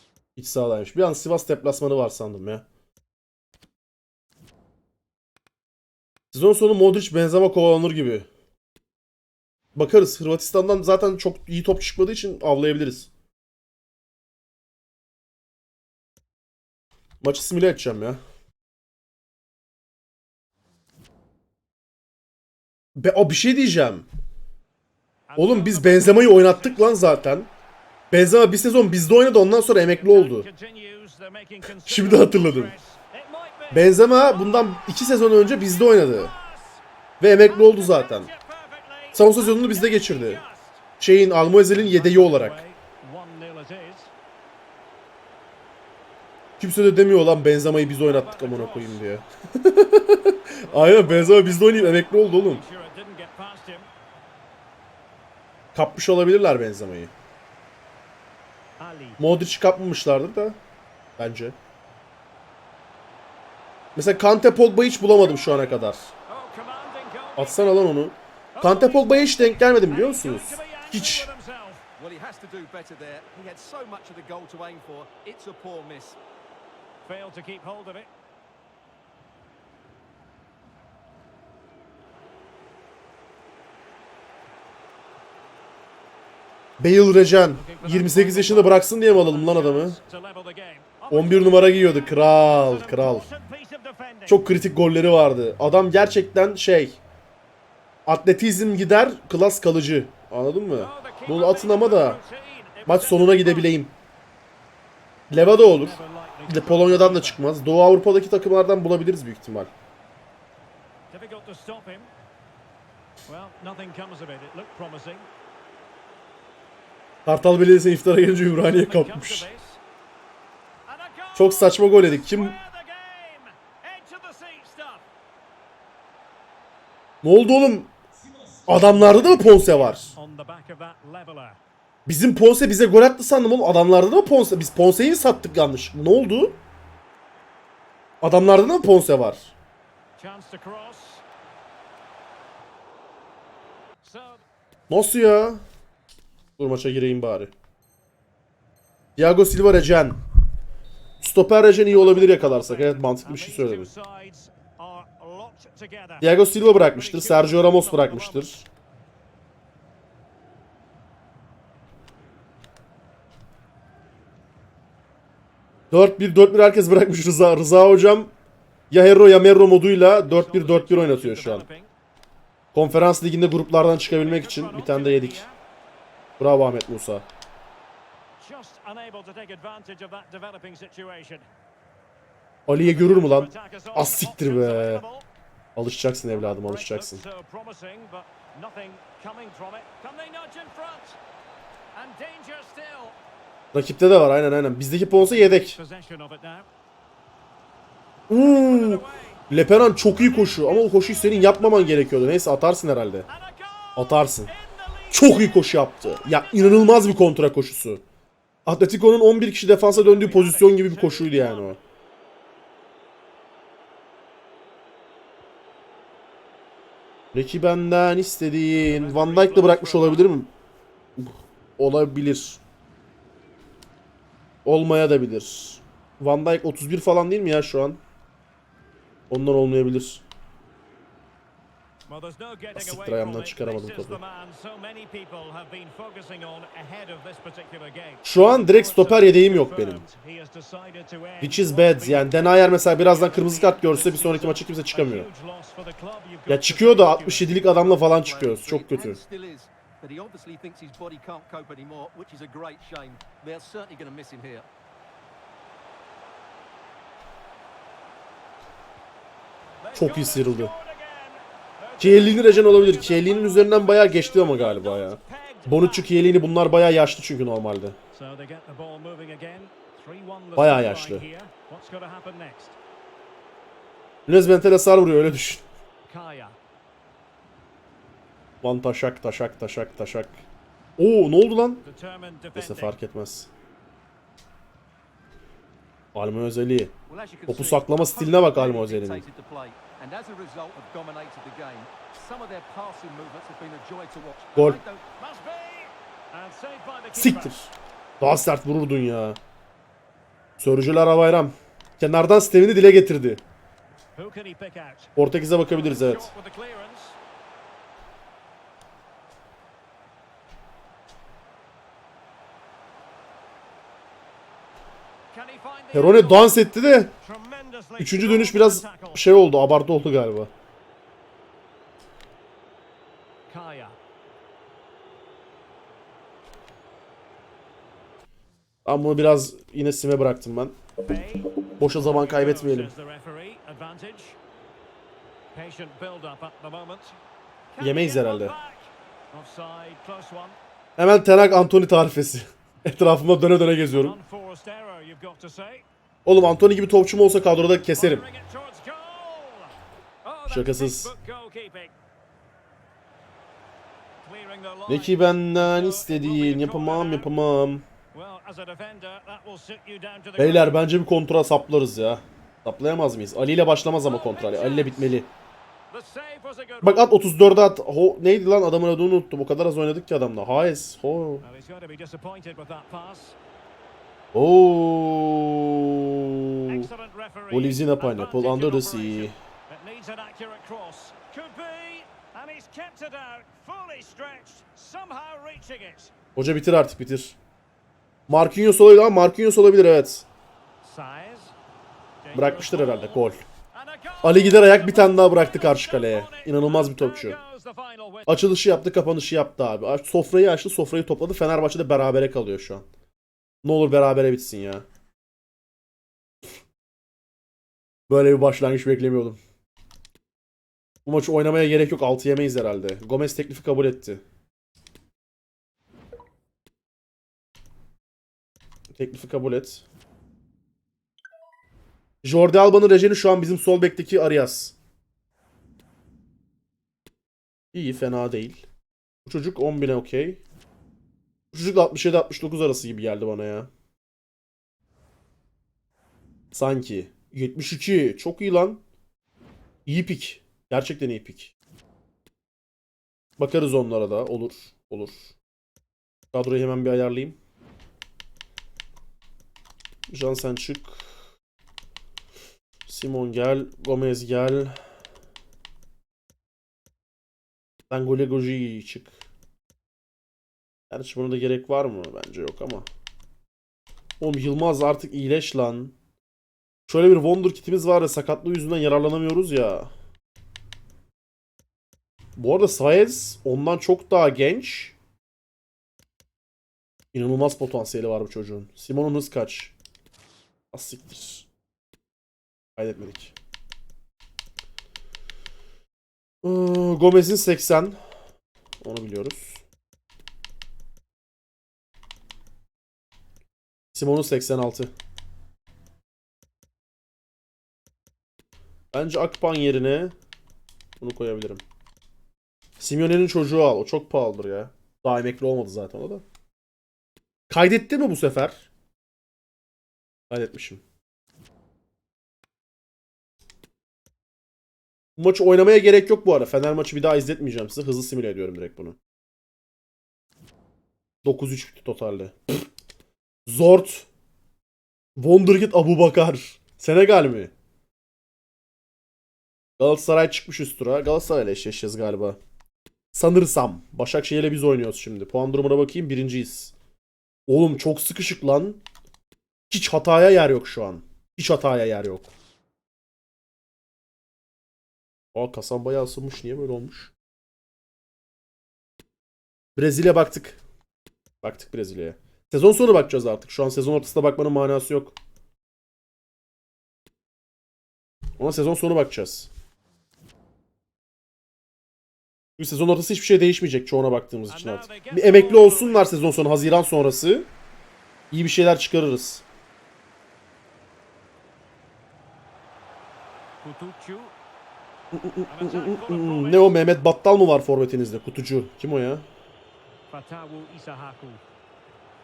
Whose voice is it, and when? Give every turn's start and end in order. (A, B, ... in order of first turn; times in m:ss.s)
0:00.4-0:02.6 A
0:06.3-0:08.3 A
0:09.8-0:13.1 A
0:17.2-0:18.2 A
0:23.0-0:24.0 A
0:25.3-0:27.1 B
0:25.4-0:27.5 A
0:28.1-0:30.5 A
0:29.7-0:36.8 B
0:31.9-0:32.7 A
0:33.7-0:36.3 A
0:37.2-0:38.3 A
0:37.4-0:40.8 B
0:39.1-0:40.4 A
0:41.0-0:42.6 A
0:41.4-0:44.1 B
0:46.6-0:52.6 A
0:48.0-0:49.0 B
0:50.6-0:53.9 B
0:55.7-0:57.1 A
0:58.8-0:59.2 B
0:59.2-1:00.6 A
1:01.2-1:01.6 A
1:03.9-1:06.1 A
1:05.4-1:05.7 B
1:06.3-1:07.8 B
1:07.4-1:11.3 A
1:08.5-1:11.8 B
1:12.0-1:16.2 C
1:17.0-1:18.1 B
1:26.8-1:30.0 A
1:27.5-1:34.5 B
1:31.1-1:33.3 A
1:34.3-1:37.0 A
1:38.0-1:42.2 A
1:40.7-1:43.8 B
1:42.9-1:43.9 A
1:45.3-1:49.7 A
1:45.3-1:47.4 B
1:51.1-1:52.1 B
1:53.3-1:55.3 B
1:57.2-1:59.5 A
1:58.5-1:59.8 B
2:00.9-2:05.0 B
2:01.4-2:02.6 A
2:07.2-2:07.9 A
2:08.2-2:08.8 C
2:08.7-2:10.2 A
2:08.9-2:11.6 B
2:12.1-2:16.6 A
2:18.2-2:19.5 A
2:20.2-2:21.2 B
2:24.0-2:24.4 B
2:24.9-2:25.6 A
2:26.6-2:27.5 A
2:29.2-2:30.2 A
2:31.2-2:33.9 A
2:31.7-2:38.6 B
2:36.2-2:38.6 A
2:45.9-2:48.3 A
2:48.9-2:51.7 A
2:50.2-2:51.9 B
2:52.7-2:55.4 A
2:54.0-2:55.6 B
2:56.4-2:57.2 A
2:58.4-3:01.5 B
3:02.7-3:05.0 A
3:02.8-3:05.3 B
3:05.8-3:07.2 A
3:06.3-3:11.2 B
3:12.0-3:13.2 B
3:13.7-3:15.8 A
3:15.2-3:16.7 B
3:18.3-3:23.3 A
3:18.4-3:22.2 B
3:23.3-3:27.2 B
3:24.0-3:24.5 A
3:25.1-3:28.0 A
3:28.7-3:31.8 A
3:29.8-3:31.8 B
3:37.3-3:40.5 A
3:38.7-3:40.4 B
3:41.2-3:42.6 A
3:44.6-3:48.0 A
3:49.3-3:50.2 A
3:52.1-4:07.6 B
3:52.8-3:54.2 A
3:58.2-4:00.0 A
4:01.4-4:05.3 A
4:06.5-4:09.2 A
4:07.7-4:14.7 C
4:19.8-4:26.3 B
4:19.9-4:20.7 A
4:22.0-4:28.0 A
4:28.1-4:32.8 B
4:30.6-4:31.2 A
4:34.3-4:35.6 A
4:36.1-4:36.6 B
4:38.6-4:40.4 A
4:41.0-4:41.8 A
4:41.8-4:42.9 B
4:42.6-4:43.5 A
4:46.2-4:46.9 A
4:47.1-4:55.1 C
4:47.5-4:49.2 A
4:55.2-4:57.6 B
4:57.2-4:57.7 A
4:58.2-4:59.4 A
5:00.6-5:03.4 A
5:04.2-5:05.2 B
5:05.2-5:06.3 A
5:05.7-5:07.2 B
5:15.3-5:19.4 B
5:15.9-5:17.1 A
5:18.0-5:20.5 A
5:23.5-5:24.0 B
5:28.9-5:30.8 A
5:31.0-5:34.4 B
5:31.8-5:32.9 A
5:35.5-5:37.2 B
5:37.7-5:40.6 B
5:37.8-5:38.6 A
5:41.0-5:44.2 A
5:43.9-5:45.8 B
5:46.2-5:48.2 A
5:47.9-5:51.9 B
5:50.5-5:51.1 A
5:54.2-5:57.3 B
5:54.9-5:57.8 A
5:58.1-6:00.8 B
6:00.4-6:05.3 A
6:04.0-6:05.2 B
6:05.9-6:07.2 B
6:06.8-6:11.4 A
6:11.4-6:13.4 B
6:14.3-6:16.9 A
6:16.7-6:26.1 B
6:17.5-6:19.4 A
6:26.4-6:27.4 A
6:28.3-6:30.2 A
6:30.8-6:31.5 B
6:32.2-6:38.5 B
6:32.3-6:33.4 A
6:34.2-6:37.4 A
6:38.3-6:42.8 A
6:43.6-6:44.8 A
6:48.1-6:49.4 A
6:51.0-6:54.2 A
6:58.9-6:59.8 A
7:02.2-7:04.8 A
7:07.7-7:08.6 A
7:09.2-7:10.4 A
7:11.5-7:13.7 A
7:16.5-7:18.8 A
7:19.9-7:21.5 A
7:23.4-7:25.3 A
7:26.3-7:27.4 A
7:30.1-7:31.1 A
7:32.9-7:34.8 A
7:37.9-7:39.1 A
7:40.9-7:42.9 A
7:44.2-7:45.9 A
7:46.9-7:49.9 A
7:52.4-7:54.9 A
7:57.1-7:59.7 A
8:00.7-8:01.4 A
8:02.8-8:03.3 A
8:06.4-8:08.0 A
8:08.8-8:09.6 A
8:13.9-8:14.9 A
8:18.9-8:20.1 A
8:21.0-8:21.6 A
8:22.8-8:26.2 A
8:27.5-8:28.7 A
8:30.3-8:30.8 A
8:35.2-8:39.0 A
8:41.2-8:42.6 A
8:43.4-8:44.1 A
8:45.2-8:47.5 A
8:49.8-8:52.4 A
8:53.1-8:56.7 A
8:57.5-8:58.8 A
8:59.7-9:02.3 A
9:05.3-9:07.1 A
9:09.8-9:10.6 A
9:11.4-9:15.2 A
9:18.4-9:19.5 A
9:22.6-9:27.5 A
9:24.5-9:26.2 B
9:28.3-9:29.4 A
9:33.6-9:34.3 B
9:35.1-9:39.2 A
9:35.5-9:36.9 B
9:40.1-9:41.4 B